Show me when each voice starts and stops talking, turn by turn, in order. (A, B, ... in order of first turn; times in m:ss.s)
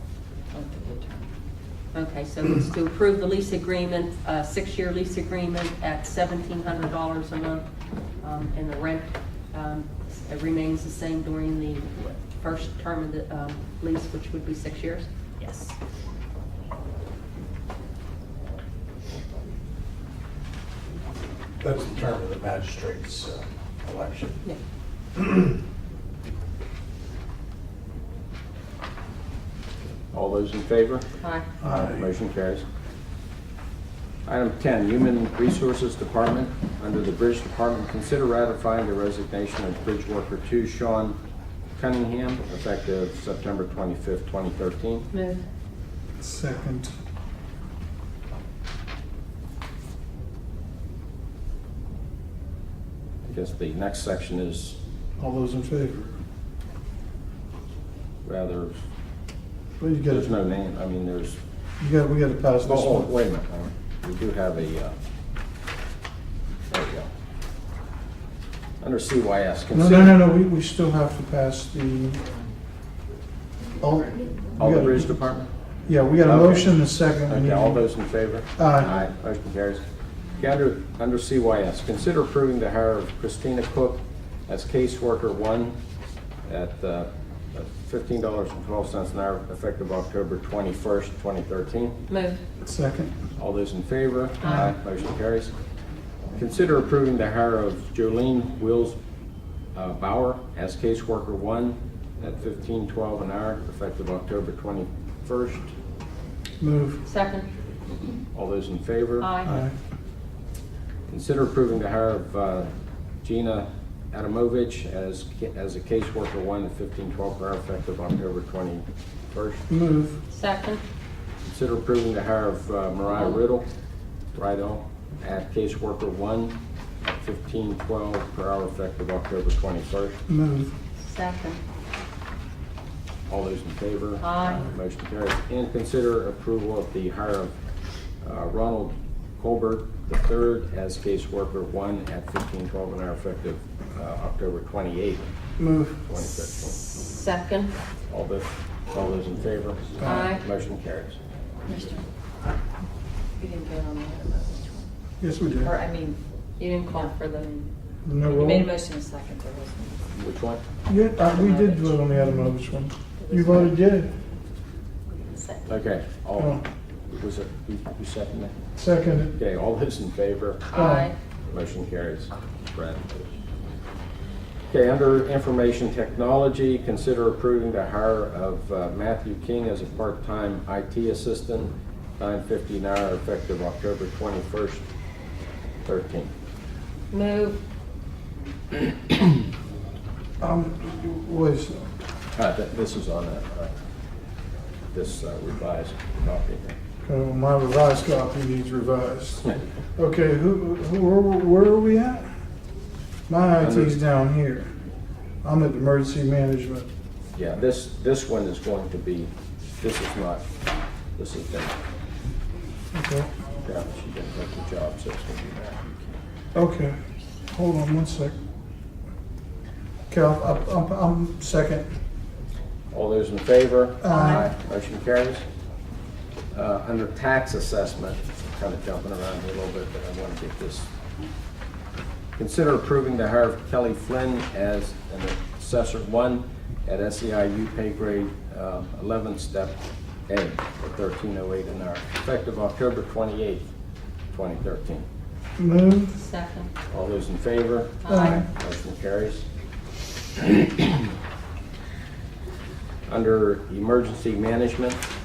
0:00.5-0:01.3 A
0:01.9-0:07.7 B
0:08.2-0:15.1 B
0:21.6-0:24.4 C
0:30.1-0:32.6 D
0:31.2-0:31.6 B
0:34.3-0:41.2 D
0:41.8-0:45.1 D
0:45.1-0:45.4 B
0:46.2-0:46.9 E
0:53.2-0:54.8 D
0:55.2-0:56.1 E
0:58.2-0:58.7 D
0:59.8-1:00.3 E
1:00.1-1:01.4 D
1:01.8-1:03.1 E
1:02.6-1:04.9 D
1:06.7-1:07.1 D
1:08.8-1:10.2 D
1:09.7-1:12.3 E
1:13.8-1:15.3 E
1:14.6-1:15.5 D
1:15.9-1:17.9 E
1:16.2-1:19.8 D
1:18.6-1:18.9 E
1:20.4-1:25.8 D
1:26.5-1:32.0 D
1:32.1-1:32.4 B
1:32.6-1:33.2 E
1:33.4-1:35.5 D
1:34.4-1:34.7 B
1:36.4-1:39.0 D
1:39.8-1:45.7 D
1:46.6-1:47.0 E
1:47.0-1:47.5 B
1:48.3-1:49.3 D
1:49.2-1:49.6 B
1:49.4-1:49.7 E
1:51.1-1:52.7 D
1:53.2-1:59.7 D
1:59.7-2:00.2 E
2:00.3-2:00.8 B
2:01.4-2:03.6 D
2:03.1-2:03.4 B
2:04.4-2:10.2 D
2:10.3-2:10.7 E
2:11.0-2:11.6 B
2:13.3-2:17.5 D
2:14.2-2:14.7 B
2:18.2-2:25.3 D
2:25.6-2:26.0 E
2:26.0-2:26.8 D
2:26.6-2:27.7 B
2:28.1-2:31.2 D
2:30.0-2:30.4 B
2:31.7-2:32.0 A
2:33.4-2:34.9 A
2:35.2-2:35.7 E
2:35.6-2:36.2 A
2:36.6-2:37.5 B
2:36.9-2:40.1 A
2:38.0-2:38.7 E
2:40.2-2:40.6 D
2:40.9-2:44.1 E
2:41.2-2:42.0 A
2:43.2-2:43.7 A
2:45.3-2:45.7 B
2:45.7-2:48.6 D
2:46.4-2:46.6 E
2:48.8-2:49.3 E
2:49.3-2:50.9 D
2:50.7-2:51.2 B
2:50.8-2:51.1 E
2:51.5-2:53.3 D
2:54.7-3:04.8 D
3:05.8-3:06.3 D
3:07.1-3:07.6 B
3:10.4-3:11.9 E
3:12.3-3:13.7 D
3:14.9-3:16.8 D
3:17.0-3:22.4 E
3:23.3-3:24.7 E
3:23.6-3:24.0 D
3:25.4-3:26.9 E
3:27.4-3:30.4 D
3:31.2-3:31.8 D
3:32.9-3:33.3 E
3:33.6-3:36.2 D
3:36.5-3:37.0 E
3:37.5-3:38.4 E
3:40.1-3:41.9 E
3:42.9-3:45.4 D
3:44.0-3:44.5 E
3:44.1-3:44.5 B
3:46.5-3:50.9 D
3:52.4-4:03.7 D
4:04.3-4:05.1 D
4:05.6-4:06.1 E
4:06.1-4:06.7 B
4:06.9-4:09.5 D
4:08.0-4:08.5 B
4:08.1-4:08.4 E
4:13.1-4:15.0 D